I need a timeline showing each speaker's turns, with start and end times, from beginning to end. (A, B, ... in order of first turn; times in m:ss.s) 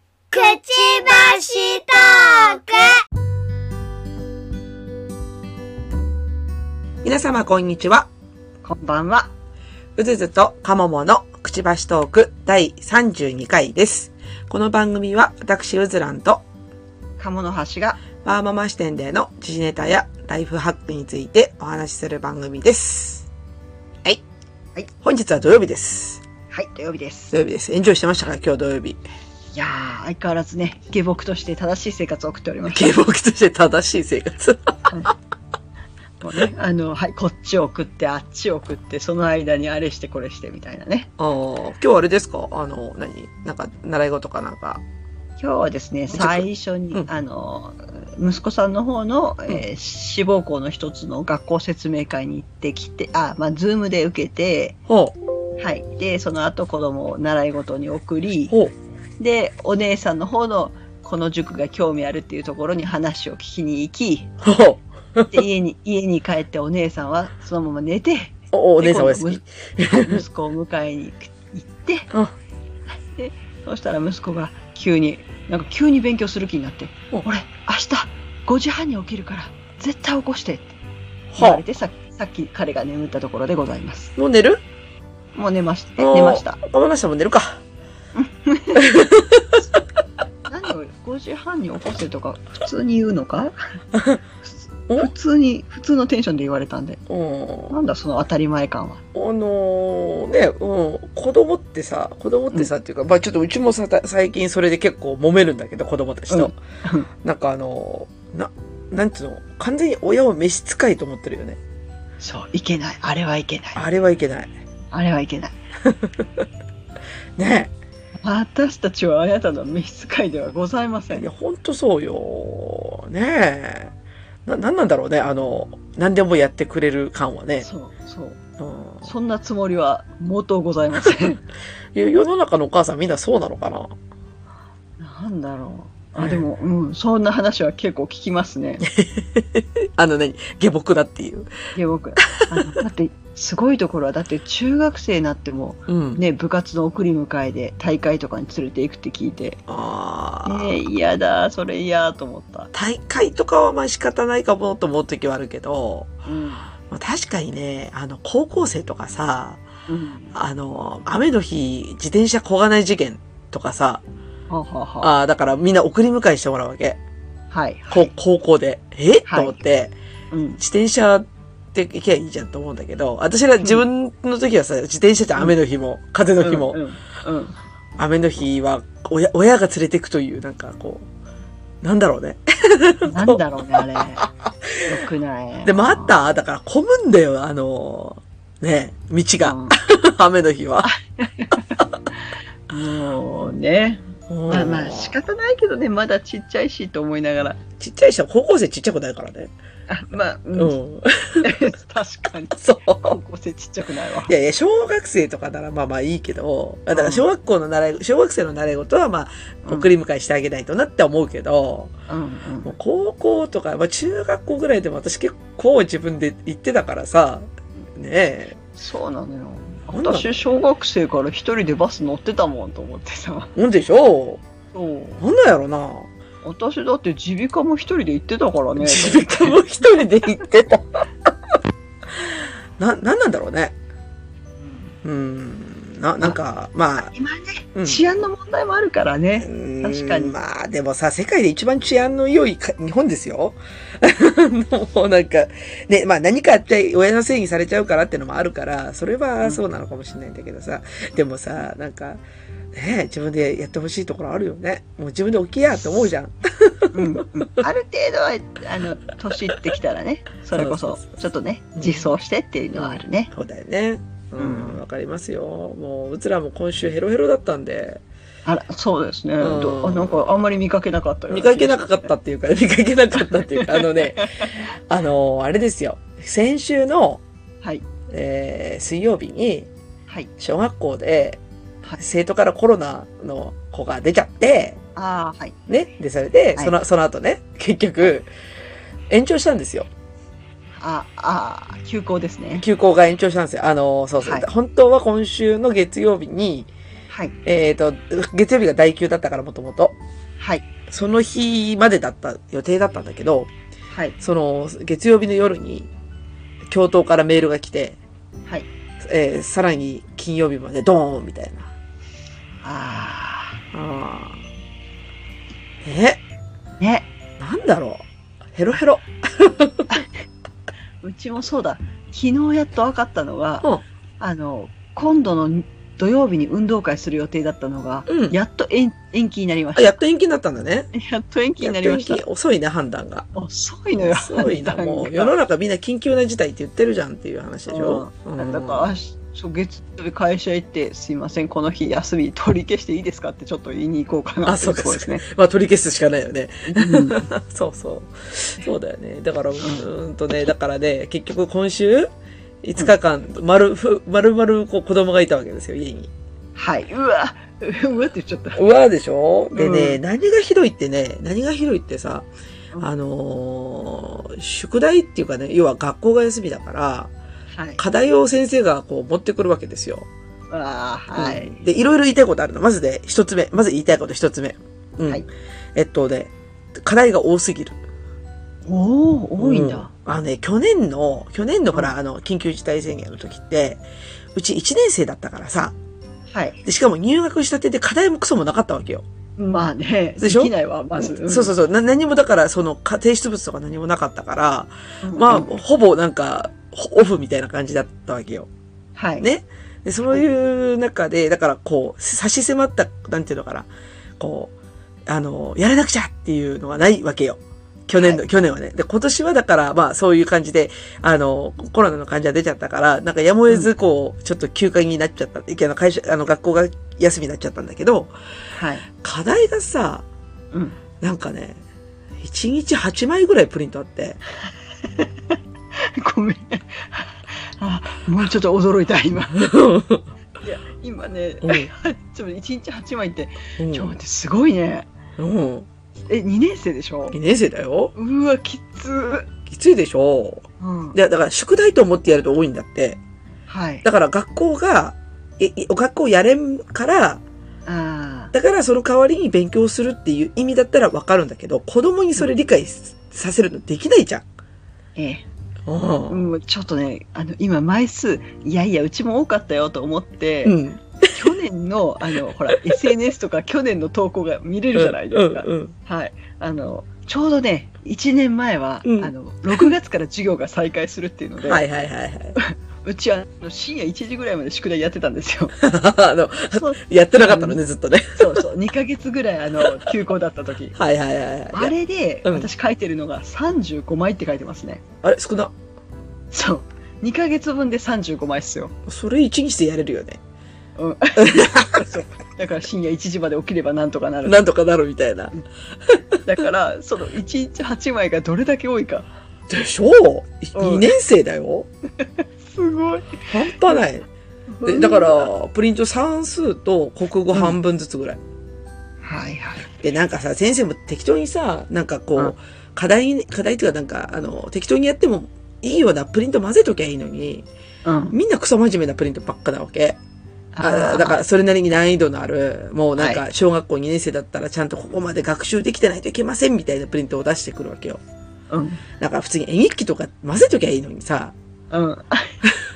0:00.3-0:03.0 A
0:07.0-0:08.1 B
0:08.6-0:09.3 C
0:10.0-0:16.4 B
0:17.2-0:18.0 C
0:18.2-0:23.3 B
0:25.0-0:26.2 B
0:26.5-0:27.3 C
0:27.3-0:29.0 B
0:29.5-0:32.9 C
0:32.7-0:35.1 B
0:36.2-0:41.1 C
0:41.2-0:44.8 B
0:45.4-0:54.8 C
0:46.1-0:47.1 B
0:54.9-0:55.2 B
0:55.6-0:58.5 C
0:58.5-0:58.7 B
0:59.2-1:04.4 C
1:04.4-1:05.4 B
1:05.3-1:12.1 C
1:08.5-1:10.2 B
1:13.1-1:20.8 C
1:21.3-1:21.6 B
1:21.4-1:24.1 C
1:24.2-1:24.6 B
1:25.3-1:26.6 C
1:26.0-1:27.6 B
1:28.1-1:29.0 C
1:28.8-1:29.6 B
1:30.5-1:33.6 C
1:33.9-1:34.2 B
1:34.4-1:37.0 C
1:37.1-1:37.8 B
1:37.7-1:39.0 C
1:39.1-1:46.5 B
1:46.3-1:47.1 C
1:47.2-1:51.6 B
1:52.2-1:53.8 C
1:53.7-1:54.5 B
1:54.9-1:55.5 C
1:55.8-1:56.4 B
1:57.4-1:57.7 B
1:58.2-2:01.3 C
2:01.1-2:03.9 B
2:04.4-2:07.7 B
2:07.6-2:08.4 C
2:08.6-2:09.1 B
2:09.0-2:11.4 C
2:11.9-2:13.9 B
2:15.0-2:18.8 C
2:16.2-2:16.5 B
2:18.9-2:21.5 B
2:21.7-2:29.6 C
2:22.3-2:22.8 B
2:25.9-2:26.2 B
2:29.7-2:30.8 B
2:30.4-2:32.7 C
2:32.7-2:36.2 B
2:36.3-2:36.7 C
2:36.9-2:39.6 B
2:39.9-2:40.3 C
2:40.3-2:44.0 B
2:44.5-2:45.1 C
2:45.0-2:47.0 B
2:47.5-2:48.1 C
2:47.9-2:49.9 B
2:49.3-2:49.6 C
2:50.3-2:50.6 C
2:50.6-2:56.8 B
2:56.4-2:57.6 C
2:58.0-3:01.1 B
3:01.8-3:05.0 B
3:03.0-3:04.2 C
3:04.8-3:06.1 C
3:05.6-3:10.9 B
3:09.4-3:09.8 C
3:10.8-3:17.6 C
3:14.3-3:15.2 B
3:17.8-3:19.5 B
3:19.9-3:20.7 C
3:20.5-3:21.6 B
3:21.4-3:24.3 C
3:22.5-3:23.2 B
3:24.3-3:31.9 B
3:26.9-3:27.2 C
3:32.1-3:32.7 C
3:32.6-3:38.6 B
3:38.7-3:43.5 C
3:39.9-3:40.4 B
3:43.6-3:44.4 B
3:44.7-3:45.2 C
3:45.2-3:46.1 B
3:46.4-3:49.6 C
3:48.8-3:51.0 B
3:52.8-3:53.8 B
3:54.6-3:54.9 C
3:55.0-3:57.1 B
3:57.1-4:00.3 C
3:57.7-3:58.0 B
3:59.4-4:17.6 B
4:16.9-4:23.3 C
4:20.5-4:21.1 B
4:21.8-4:22.1 B
4:22.7-4:28.0 B
4:24.4-4:24.8 C
4:28.4-4:32.0 C
4:29.4-4:30.3 B
4:31.3-4:37.2 B
4:33.5-4:34.6 C
4:38.1-4:39.7 B
4:40.4-4:41.4 B
4:42.0-4:44.8 B
4:45.0-4:45.6 C
4:45.7-4:48.3 B
4:49.1-4:49.9 B
4:50.8-4:52.6 C
4:52.6-4:56.7 B
4:57.4-5:00.0 B
5:00.4-5:00.6 C
5:00.9-5:03.5 B
5:04.2-5:05.9 B
5:06.7-5:08.0 B
5:09.0-5:11.7 B
5:12.6-5:13.6 C
5:13.7-5:14.4 B
5:15.8-5:16.2 B
5:16.8-5:17.1 C
5:17.4-5:19.9 B
5:21.0-5:23.7 C
5:24.2-5:30.0 C
5:28.1-5:28.4 B
5:29.8-5:30.9 B
5:30.9-5:32.2 C
5:31.6-5:33.3 B
5:33.3-5:35.3 C
5:34.0-5:38.9 B
5:37.7-5:45.2 C
5:44.4-5:52.1 B
5:46.6-5:47.3 C
5:49.6-5:49.9 C
5:52.6-5:56.1 B
5:56.6-5:58.6 C
5:58.5-6:02.3 B
5:59.5-6:00.0 C
6:02.8-6:07.1 B
6:07.5-6:07.8 C
6:07.8-6:10.1 B
6:10.5-6:11.6 C
6:11.1-6:15.2 B
6:15.7-6:17.8 B
6:18.6-6:19.9 C
6:19.4-6:23.8 B
6:24.3-6:25.8 B
6:26.3-6:26.6 C
6:26.6-6:29.0 B
6:29.4-6:31.5 C
6:30.2-6:38.5 B
6:35.0-6:35.5 C
6:39.0-6:39.2 C
6:39.2-6:44.5 B
6:45.1-6:58.1 B
6:58.5-6:58.9 C
6:59.0-7:00.0 B
7:00.5-7:00.8 C
7:01.0-7:01.6 B
7:02.2-7:04.2 B
7:04.4-7:09.5 C
7:09.4-7:10.1 B
7:10.4-7:14.9 C
7:11.4-7:11.7 B
7:13.6-7:13.9 B
7:15.2-7:15.7 B
7:16.1-7:17.2 C
7:17.1-7:17.9 B
7:17.9-7:19.3 C
7:19.5-7:23.0 B
7:20.6-7:21.0 C
7:23.5-7:23.8 C
7:23.8-7:27.2 B
7:27.6-7:28.3 C
7:28.3-7:34.3 B
7:35.0-7:35.2 C
7:35.6-7:36.3 B
7:36.1-7:40.6 C
7:40.4-7:41.2 B
7:41.1-7:51.6 C
7:42.2-7:42.9 B
7:44.7-7:45.7 B
7:48.8-7:49.7 B
7:51.4-7:52.4 B
7:52.4-7:55.5 C
7:55.6-7:58.4 B
7:56.6-7:57.6 C
7:58.2-8:00.8 C
7:59.6-7:59.9 B
8:00.7-8:02.5 B
8:01.5-8:04.8 C
8:05.0-8:05.5 B
8:06.3-8:08.7 C
8:08.8-8:10.2 B
8:10.8-8:14.4 C
8:11.2-8:11.9 B
8:14.2-8:16.0 B
8:16.2-8:19.1 C
8:19.5-8:21.7 B
8:20.5-8:20.9 C
8:22.2-8:23.8 C
8:23.3-8:24.1 B
8:24.5-8:25.3 C
8:24.6-8:28.2 B
8:29.0-8:29.7 C
8:29.8-8:37.5 B
8:37.8-8:38.2 C
8:38.1-8:40.0 B
8:40.5-8:41.2 C
8:40.6-8:48.0 B
8:43.0-8:43.2 C
8:48.5-8:48.8 C
8:49.0-8:51.3 B
8:51.7-8:52.4 C